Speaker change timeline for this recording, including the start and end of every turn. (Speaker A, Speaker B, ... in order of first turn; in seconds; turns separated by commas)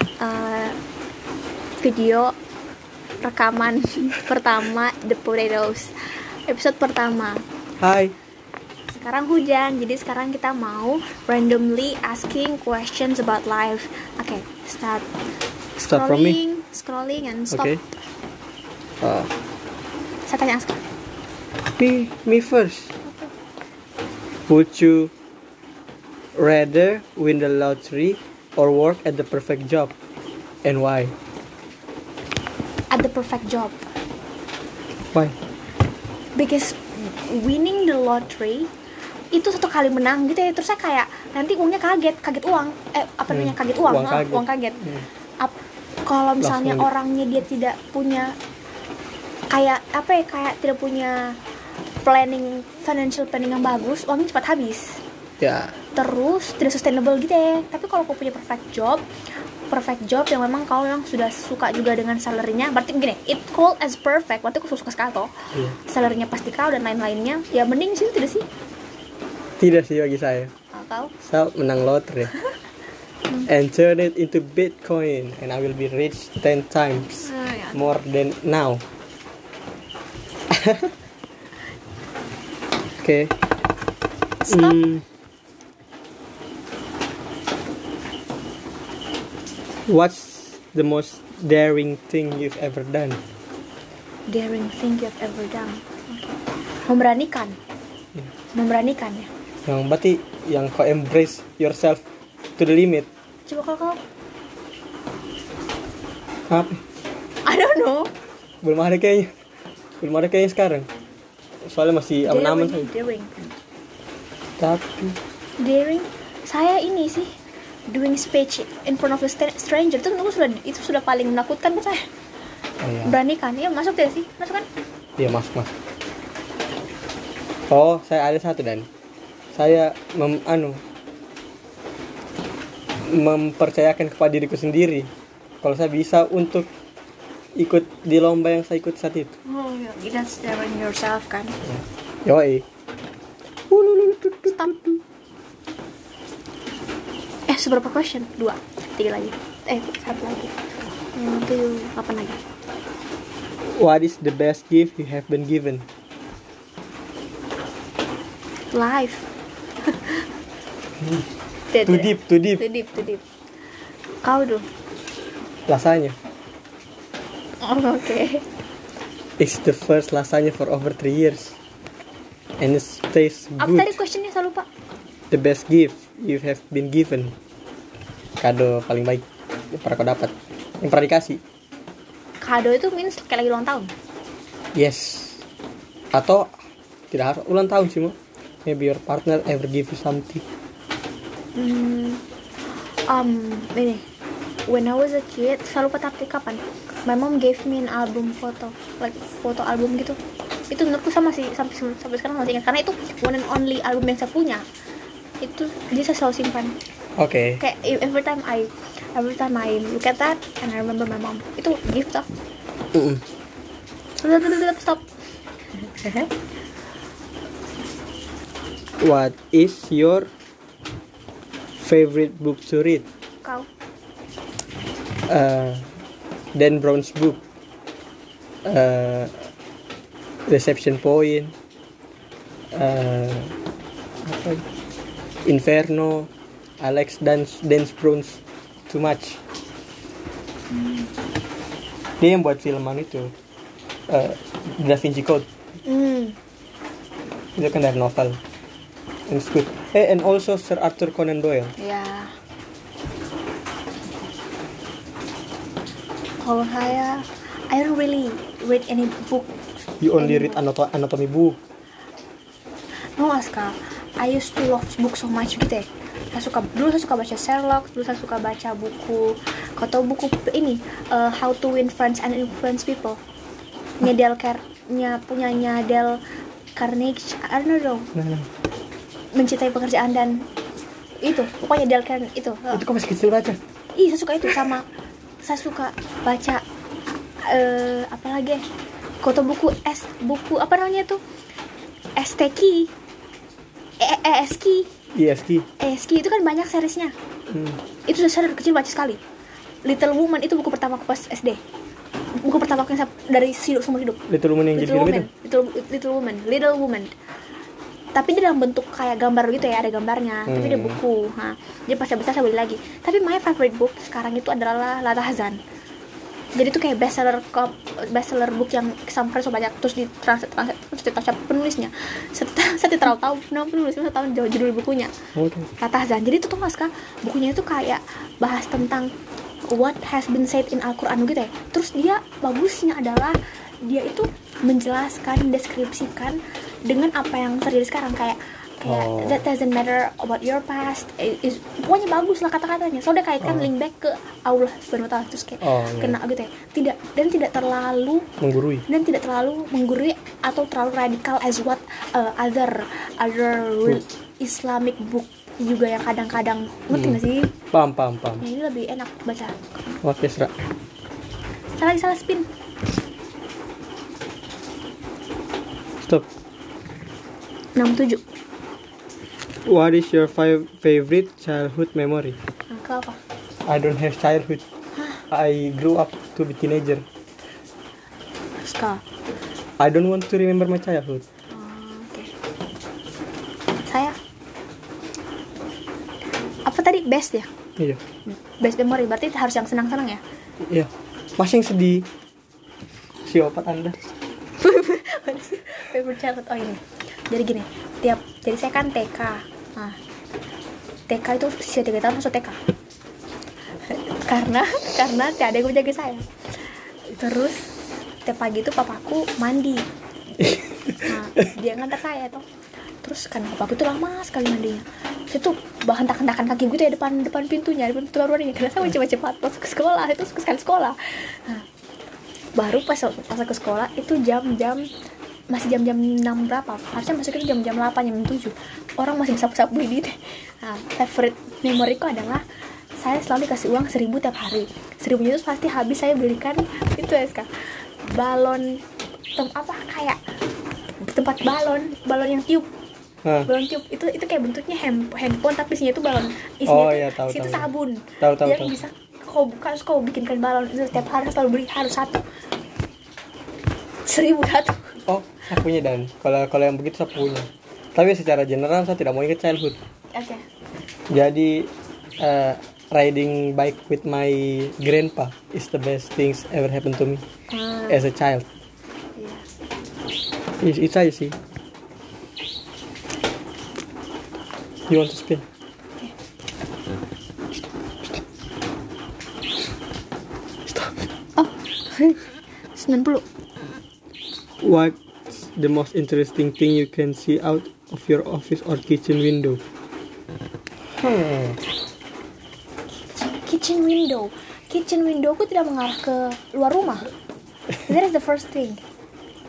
Speaker A: 0.2-0.8, Speaker A: 1.8-2.4, Speaker A: 3.2-5.9, Speaker A: 6.5-7.4, Speaker B: 7.8-8.2, Speaker A: 8.9-15.1, Speaker A: 15.8-17.7, Speaker B: 15.8-16.4, Speaker B: 17.5-17.8, Speaker B: 19.0-19.3, Speaker A: 20.3-20.8, Speaker B: 21.7-22.9, Speaker B: 24.5-25.1, Speaker B: 26.4-29.9, Speaker B: 30.6-31.1, Speaker A: 32.9-33.8, Speaker A: 36.4-38.7, Speaker A: 39.3-44.9, Speaker B: 43.3-45.1, Speaker A: 45.4-48.4, Speaker B: 46.4-46.9, Speaker A: 49.5-51.4, Speaker A: 52.0-55.0, Speaker B: 55.4-55.8, Speaker A: 55.9-59.0, Speaker A: 59.7-68.5, Speaker B: 69.6-70.5, Speaker A: 70.7-71.1, Speaker B: 71.2-72.3, Speaker B: 73.4-78.8, Speaker A: 77.2-77.8, Speaker B: 80.5-80.9, Speaker B: 83.0-83.4, Speaker A: 84.4-84.8, Speaker B: 84.5-85.0, Speaker B: 89.9-93.2, Speaker A: 94.3-97.6, Speaker A: 98.5-99.3, Speaker B: 99.7-102.0, Speaker B: 102.6-103.1, Speaker A: 103.5-104.0, Speaker B: 106.5-106.8, Speaker A: 107.5-108.1, Speaker B: 108.6-109.3, Speaker B: 110.0-110.9, Speaker B: 111.7-112.9, Speaker A: 112.2-113.5, Speaker B: 114.6-115.2, Speaker A: 115.6-117.3, Speaker A: 117.9-122.1, Speaker B: 122.8-123.2, Speaker A: 123.0-124.7, Speaker B: 125.2-125.7, Speaker B: 127.7-128.9, Speaker B: 129.5-130.8, Speaker B: 133.1-135.1, Speaker B: 135.6-136.7, Speaker B: 137.6-139.4, Speaker A: 139.5-141.6, Speaker B: 141.6-142.7, Speaker B: 143.7-145.0, Speaker A: 144.5-144.7, Speaker A: 147.5-150.6, Speaker A: 151.1-152.4, Speaker B: 153.7-155.9, Speaker A: 158.7-159.3, Speaker A: 159.9-160.3, Speaker A: 161.7-163.2, Speaker B: 161.8-162.7, Speaker A: 164.2-164.7, Speaker B: 165.7-166.2, Speaker A: 167.6-168.4, Speaker B: 169.4-171.6, Speaker B: 172.6-174.0, Speaker A: 173.6-174.7, Speaker B: 175.3-177.3, Speaker B: 178.4-181.4, Speaker A: 182.4-183.9, Speaker B: 184.8-185.4, Speaker B: 186.1-186.5, Speaker B: 187.1-190.4, Speaker A: 191.6-192.2, Speaker A: 193.1-194.0, Speaker A: 194.7-200.2, Speaker A: 200.7-204.6, Speaker A: 205.4-206.8, Speaker B: 207.2-207.6, Speaker A: 207.6-212.3, Speaker B: 212.9-213.2, Speaker A: 214.2-215.0, Speaker A: 215.8-216.3, Speaker B: 219.0-220.3, Speaker B: 221.8-223.1, Speaker B: 225.3-225.9, Speaker B: 226.6-227.4, Speaker B: 228.7-229.5, Speaker B: 230.5-231.6, Speaker B: 232.7-233.6, Speaker B: 234.2-234.7, Speaker B: 235.4-239.4, Speaker A: 240.7-241.1, Speaker B: 242.2-243.3, Speaker B: 244.1-245.5, Speaker A: 245.9-246.4, Speaker B: 247.6-248.4, Speaker B: 249.3-251.7, Speaker A: 251.8-252.3, Speaker A: 256.4-259.6, Speaker B: 260.0-261.6, Speaker A: 260.2-260.6, Speaker A: 263.2-273.2, Speaker A: 274.0-276.2, Speaker A: 276.8-278.1, Speaker B: 278.1-278.5, Speaker A: 279.4-280.5, Speaker A: 281.2-282.8, Speaker B: 282.7-283.6, Speaker A: 283.9-284.9, Speaker A: 285.4-286.6, Speaker A: 287.4-288.6, Speaker A: 289.2-291.2, Speaker A: 292.2-292.9, Speaker A: 294.0-294.9, Speaker B: 295.1-295.7, Speaker A: 295.8-297.1, Speaker B: 297.5-297.8, Speaker A: 298.1-299.2, Speaker A: 299.9-301.6, Speaker A: 302.4-304.2, Speaker B: 304.3-305.3, Speaker A: 304.7-307.1, Speaker A: 308.1-315.6, Speaker B: 310.5-311.0, Speaker A: 316.6-325.1, Speaker B: 325.4-325.7, Speaker A: 325.8-329.1, Speaker A: 329.7-348.3, Speaker B: 338.9-339.4, Speaker B: 343.4-343.7, Speaker B: 345.6-346.2, Speaker B: 348.4-348.9, Speaker A: 348.9-357.5, Speaker B: 356.9-357.2, Speaker B: 357.7-358.4, Speaker A: 358.4-359.6, Speaker B: 360.0-360.5, Speaker A: 361.8-362.5, Speaker B: 366.0-366.3, Speaker A: 367.8-368.2, Speaker B: 369.7-372.4, Speaker A: 372.7-373.2, Speaker B: 373.7-374.6, Speaker A: 375.0-375.2, Speaker B: 375.3-377.1, Speaker A: 378.6-379.0, Speaker B: 379.8-381.2, Speaker A: 381.5-382.3, Speaker A: 383.9-384.2, Speaker A: 386.7-387.5, Speaker A: 388.3-390.2, Speaker B: 390.6-392.1, Speaker B: 393.2-394.0, Speaker A: 394.6-400.0, Speaker A: 401.1-402.6, Speaker A: 403.9-406.2, Speaker A: 407.1-409.9, Speaker B: 410.4-411.5, Speaker A: 411.0-412.4, Speaker A: 413.0-421.7, Speaker A: 422.6-424.9, Speaker A: 425.5-432.4, Speaker A: 433.0-437.5, Speaker A: 438.0-438.8, Speaker A: 439.4-440.2, Speaker A: 441.0-442.7, Speaker B: 443.2-443.5, Speaker A: 443.4-452.2, Speaker B: 446.7-447.7, Speaker B: 448.2-448.8, Speaker A: 454.1-455.0, Speaker B: 455.1-459.8, Speaker A: 460.1-460.4, Speaker B: 461.1-467.2, Speaker A: 467.5-468.1, Speaker B: 467.9-468.5, Speaker A: 469.2-469.4, Speaker B: 470.6-471.4, Speaker B: 474.9-475.4, Speaker A: 481.4-482.2, Speaker A: 482.7-483.2, Speaker B: 484.6-489.6, Speaker B: 491.0-491.6, Speaker A: 493.2-497.1, Speaker A: 497.8-498.8